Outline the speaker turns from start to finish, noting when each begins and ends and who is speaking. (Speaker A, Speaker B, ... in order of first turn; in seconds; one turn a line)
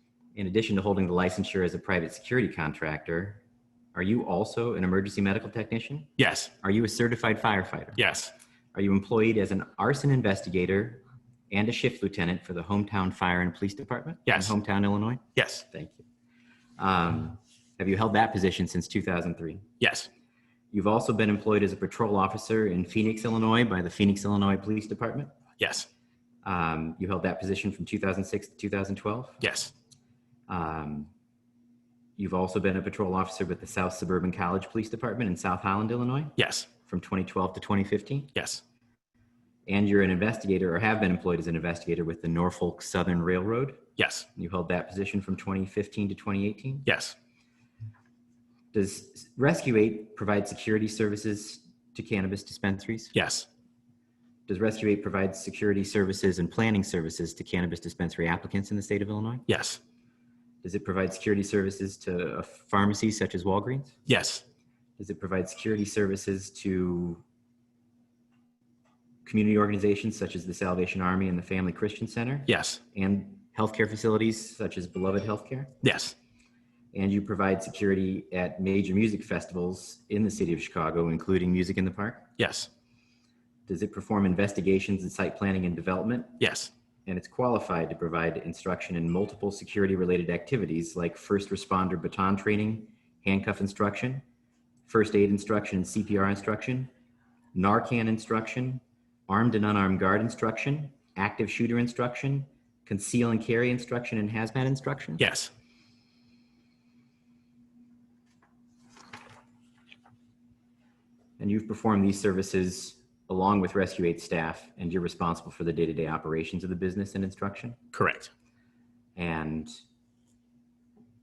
Speaker A: 0.3-3.4
Speaker A: 3.9-8.0
Speaker B: 6.2-6.5
Speaker B: 8.0-8.3
Speaker A: 8.7-16.1
Speaker B: 14.3-14.5
Speaker B: 15.4-15.7
Speaker A: 16.8-19.7
Speaker B: 19.8-20.1
Speaker A: 20.7-25.3
Speaker B: 25.6-25.9
Speaker A: 26.4-29.4
Speaker B: 29.4-29.7
Speaker A: 30.5-31.1
Speaker A: 32.2-38.3
Speaker B: 36.4-36.7
Speaker B: 38.3-38.6
Speaker A: 39.7-46.9
Speaker B: 44.0-44.3
Speaker B: 46.9-47.2
Speaker A: 48.7-53.2
Speaker B: 53.1-53.5
Speaker A: 54.5-59.5
Speaker B: 59.5-59.8
Speaker A: 60.6-64.0
Speaker B: 64.1-64.4
Speaker A: 65.0-67.2
Speaker A: 69.2-75.7
Speaker B: 72.5-72.8
Speaker B: 75.8-76.1
Speaker A: 76.9-82.3
Speaker B: 82.4-82.7
Speaker A: 83.7-86.4
Speaker B: 86.4-86.7
Speaker A: 87.0-94.2
Speaker A: 94.9-96.9
Speaker A: 97.5-105.2
Speaker B: 105.2-105.5
Speaker A: 111.4-117.8
Speaker B: 117.9-118.3
Speaker A: 119.2-119.7